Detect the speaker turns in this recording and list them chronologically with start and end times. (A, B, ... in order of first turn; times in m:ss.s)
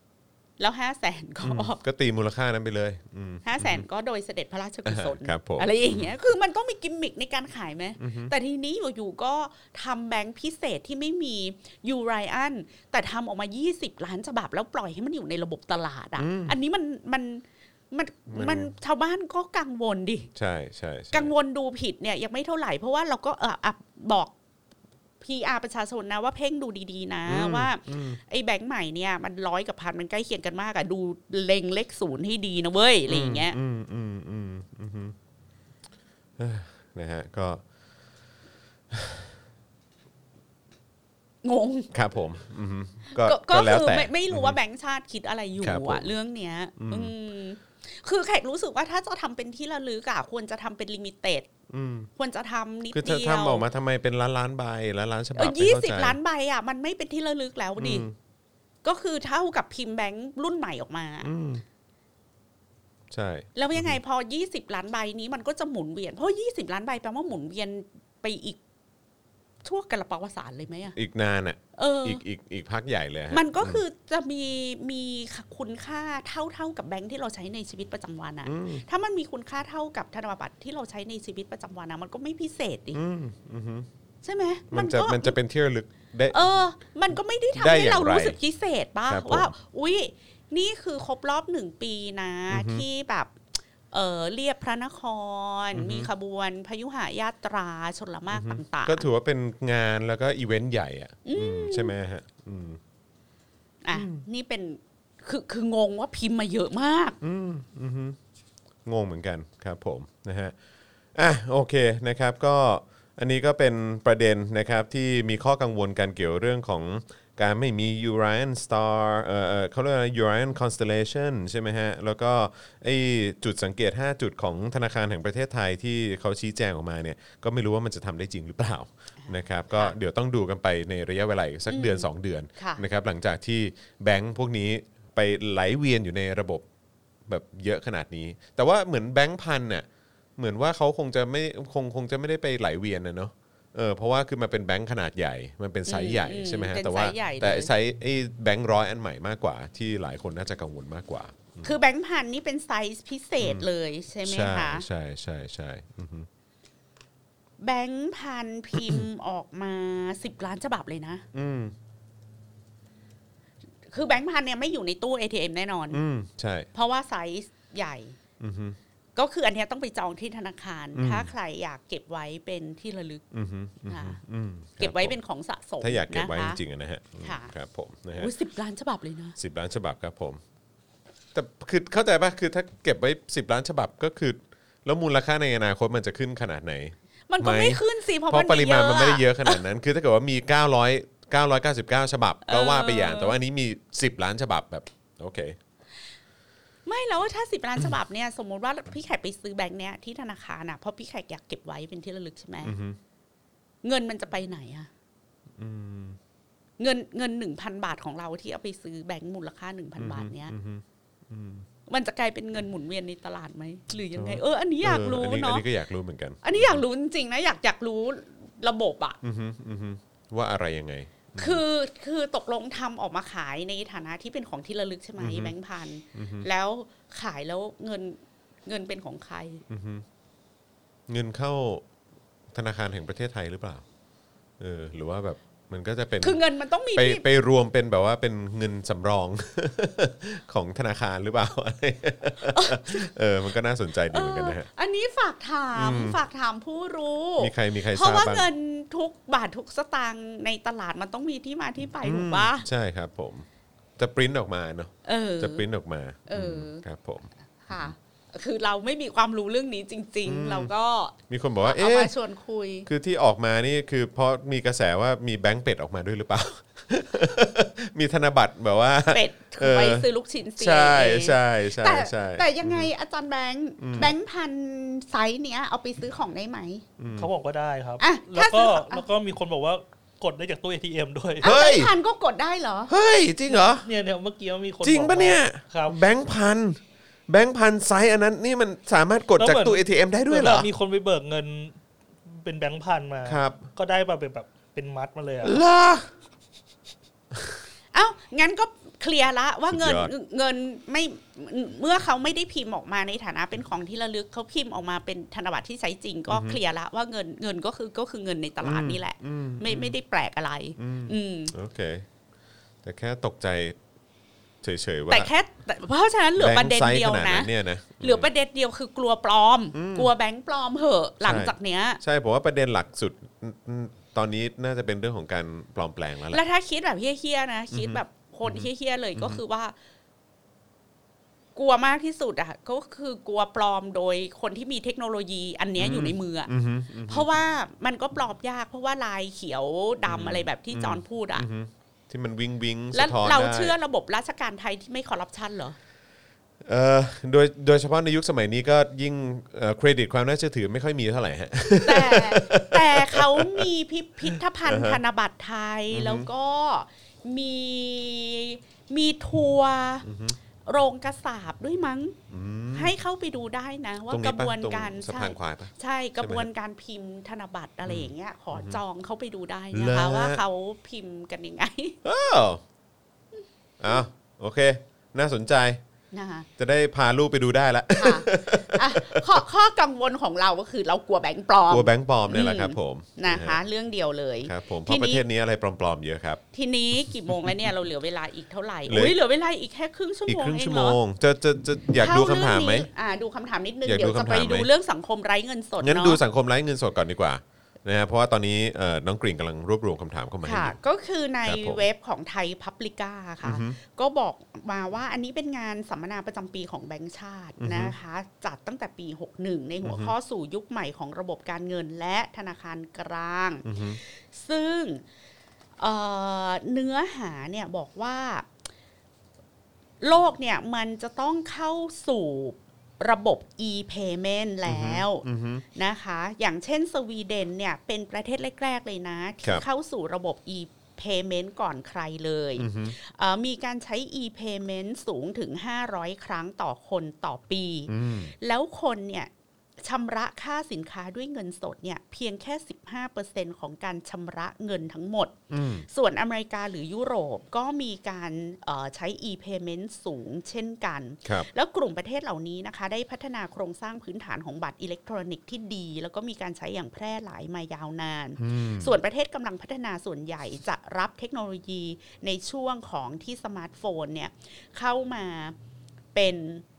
0:00.6-0:01.8 A
0:01.4-0:03.9 B
0:03.4-0:20.3 A
0:04.9-0:06.1 B
0:08.0-0:08.3 B
0:16.2-0:16.6 B
0:18.3-0:18.7 B
0:20.4-0:21.3 B
0:21.1-0:24.3 A
0:25.2-0:33.6 A
0:27.3-0:28.2 B
0:33.1-0:35.2 B
0:36.4-0:37.6 B
0:38.9-0:39.3 B
0:41.4-0:41.9 A
0:41.9-0:44.6 B
0:43.1-0:51.5 A
0:45.6-0:46.1 B
0:46.8-0:47.1 B
0:51.7-0:52.1 B
0:52.2-0:53.6 A
0:52.9-0:56.2 B
0:55.4-0:58.1 A
0:57.8-0:58.1 B
0:58.8-1:01.3 A
1:01.2-1:01.6 B
1:03.1-1:04.0 B
1:03.6-1:08.6 A
1:09.6-1:11.0 A
1:11.0-1:13.8 B
1:11.8-1:12.2 A
1:13.3-1:23.0 A
1:18.5-1:18.8 B
1:22.9-1:23.9 B
1:24.2-1:25.4 A
1:24.7-1:26.4 B
1:26.3-1:33.4 A
1:27.6-1:28.4 B
1:29.1-1:29.5 B
1:32.5-1:32.8 B
1:33.9-1:39.1 A
1:35.8-1:36.1 B
1:38.3-1:42.8 B
1:41.2-1:41.9 A
1:43.8-1:47.2 A
1:43.9-1:44.2 B
1:47.2-1:48.2 B
1:48.8-1:50.6 B
1:51.2-2:16.6 B
2:09.2-2:09.9 A
2:11.7-2:12.8 A
2:17.3-2:31.7 B
2:25.9-2:27.7 A
2:31.6-2:34.9 A
2:33.4-2:33.7 B
2:34.2-2:36.3 B
2:37.6-2:41.2 A
2:41.3-2:41.7 B
2:43.9-2:46.0 A
2:45.9-2:46.7 B
2:46.7-2:48.2 A
2:48.4-2:48.8 B
2:49.2-2:53.2 A
2:51.0-2:51.3 B
2:53.3-2:55.2 B
2:53.9-2:54.2 A
2:54.8-2:56.6 A
2:55.8-2:58.3 B
2:57.2-2:57.5 A
2:58.2-2:59.4 A
2:59.4-3:00.4 B
3:01.3-3:15.6 B
3:07.3-3:09.6 A
3:12.4-3:13.4 A
3:16.9-3:22.8 A
3:22.6-3:23.0 B
3:23.8-3:24.9 A
3:25.6-3:26.2 B
3:26.8-3:30.5 A
3:30.0-3:31.7 B
3:31.9-3:35.6 A
3:34.1-3:36.8 B
3:36.4-3:39.2 A
3:39.2-3:41.6 B
3:41.4-3:49.6 A
3:45.2-3:45.5 B
3:46.1-3:46.5 B
3:49.7-3:50.0 B
3:51.1-3:51.8 B
3:52.5-3:53.8 B
3:54.6-3:56.4 B
3:56.2-3:57.2 A
3:57.0-4:04.7 B
4:02.5-4:03.1 A
4:04.1-4:12.7 A
4:05.8-4:06.2 B
4:07.4-4:08.5 B
4:12.0-4:13.5 B
4:14.0-4:17.9 B
4:15.0-4:15.6 A
4:16.3-4:16.8 A
4:17.6-4:22.9 A
4:20.2-4:20.7 B
4:21.3-4:22.1 B
4:22.9-4:30.1 B
4:29.1-4:36.8 A
4:30.6-4:32.9 B
4:33.8-4:34.2 B
4:37.0-4:37.3 B
4:37.2-4:41.5 C
4:38.0-4:39.0 A
4:41.4-4:41.9 B
4:41.4-4:42.9 A
4:42.9-4:43.9 B
4:43.8-4:46.0 C
4:44.8-4:50.7 B
4:49.4-4:55.6 C
4:53.2-4:53.6 B
4:55.4-4:56.1 B
4:57.9-5:11.5 A
4:59.7-5:00.1 B
5:06.3-5:06.6 B
5:08.6-5:10.0 B
5:10.8-5:12.1 B
5:12.8-5:13.8 B
5:14.6-5:15.3 B
5:15.1-5:22.0 A
5:16.4-5:18.3 B
5:19.7-5:20.1 B
5:21.2-5:26.4 B
5:26.3-5:29.8 A
5:27.7-5:29.4 B
5:31.6-5:36.5 A
5:35.8-5:37.3 B
5:37.0-5:41.5 A
5:40.1-5:43.8 B
5:42.9-5:45.8 A
5:46.6-5:53.7 B
5:51.8-6:00.1 A
5:54.6-5:55.0 B
5:55.9-5:56.3 B
6:00.0-6:00.4 B
6:00.6-6:02.2 A
6:02.3-6:03.0 B
6:02.7-6:12.0 A
6:04.1-6:06.5 B
6:07.9-6:08.8 B
6:09.7-6:10.4 B
6:12.0-6:12.6 B
6:13.8-6:15.8 B
6:16.1-6:16.5 A
6:16.6-6:19.4 B
6:17.9-6:25.2 A
6:21.7-6:23.6 B
6:24.4-6:26.4 B
6:26.5-6:31.0 A
6:27.0-6:27.7 B
6:28.9-6:29.2 B
6:30.3-6:32.9 B
6:32.0-6:36.2 A
6:33.8-6:34.7 B
6:35.8-6:40.8 B
6:40.4-6:55.0 A
6:41.4-6:41.8 B
6:43.4-6:43.8 B
6:47.6-6:47.9 B
6:49.8-6:50.1 B
6:53.6-6:54.0 B
6:55.8-6:58.5 A
7:00.0-7:19.3 A
7:04.7-7:05.6 B
7:12.6-7:13.0 B
7:17.9-7:18.3 B
7:19.8-7:25.4 A
7:25.5-7:25.9 B
7:25.9-7:45.6 A
7:38.4-7:39.0 B
7:46.2-7:46.6 A